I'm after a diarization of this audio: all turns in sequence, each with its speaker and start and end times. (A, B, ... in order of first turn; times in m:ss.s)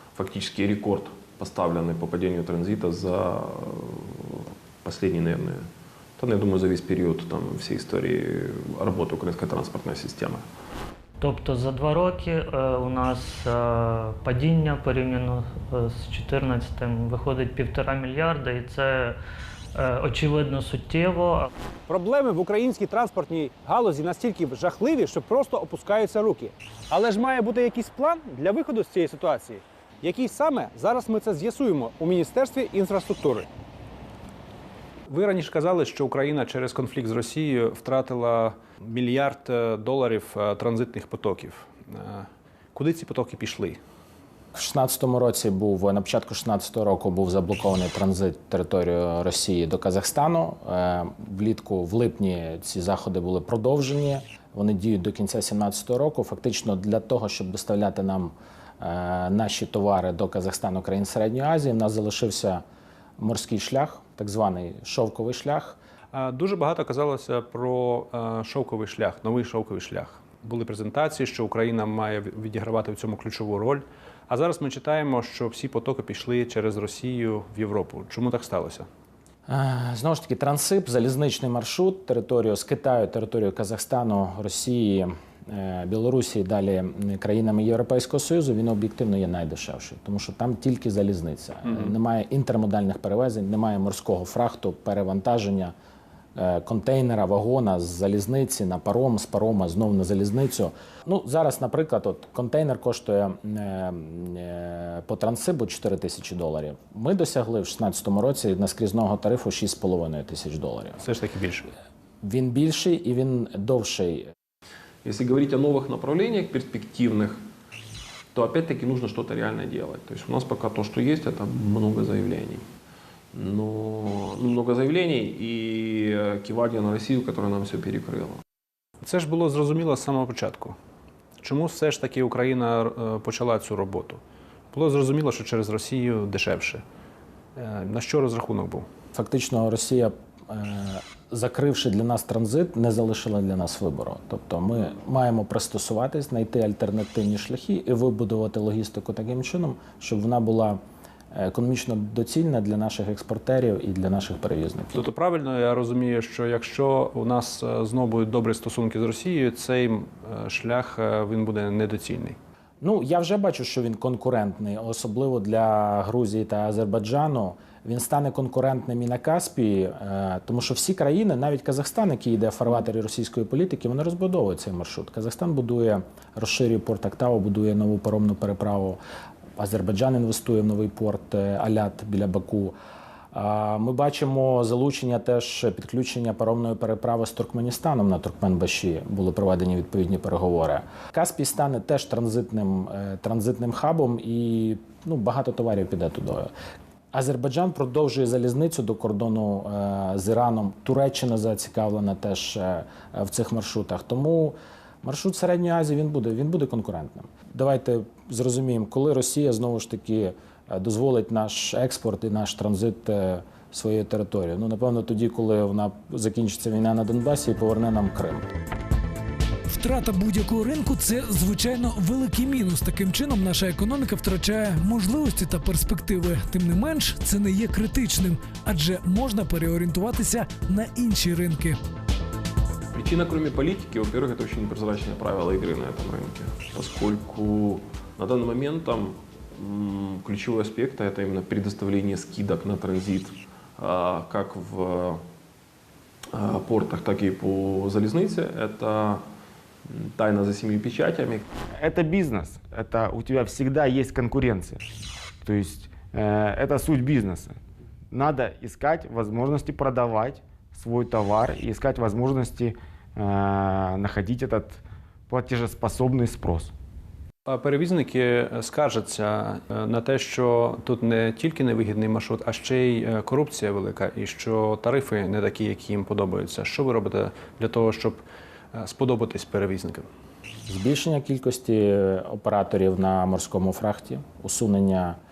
0:00.1-0:10.4 A
0:11.2-0:19.2 B
0:19.7-0:21.5 B
0:21.9-0:33.5 C
0:35.1-0:43.8 C
0:44.5-1:02.6 D
1:03.2-1:05.8 D
1:06.1-1:18.9 C
1:19.5-1:35.7 D
1:36.4-1:51.1 D
1:51.0-1:51.7 C
1:52.2-1:54.3 D
1:55.0-1:57.4 A
1:58.3-2:02.6 A
2:03.3-2:08.4 A
2:09.0-2:10.8 C
2:11.4-2:14.2 C
2:14.7-2:16.8 C
2:17.6-2:18.8 C
2:19.1-2:30.8 D
2:31.3-2:35.1 D
2:34.9-2:42.4 C
2:42.8-2:59.0 D
2:59.6-3:02.7 D
3:03.3-3:16.5 D
3:17.1-3:38.5 D
3:39.7-3:51.8 E
3:52.9-4:05.2 A
4:06.3-4:09.2 A
4:09.8-4:11.4 A
4:11.8-4:14.8 F
4:15.4-4:17.5 F
4:18.1-4:24.7 F
4:25.3-4:26.7 F
4:27.5-4:40.1 C
4:40.7-4:45.2 D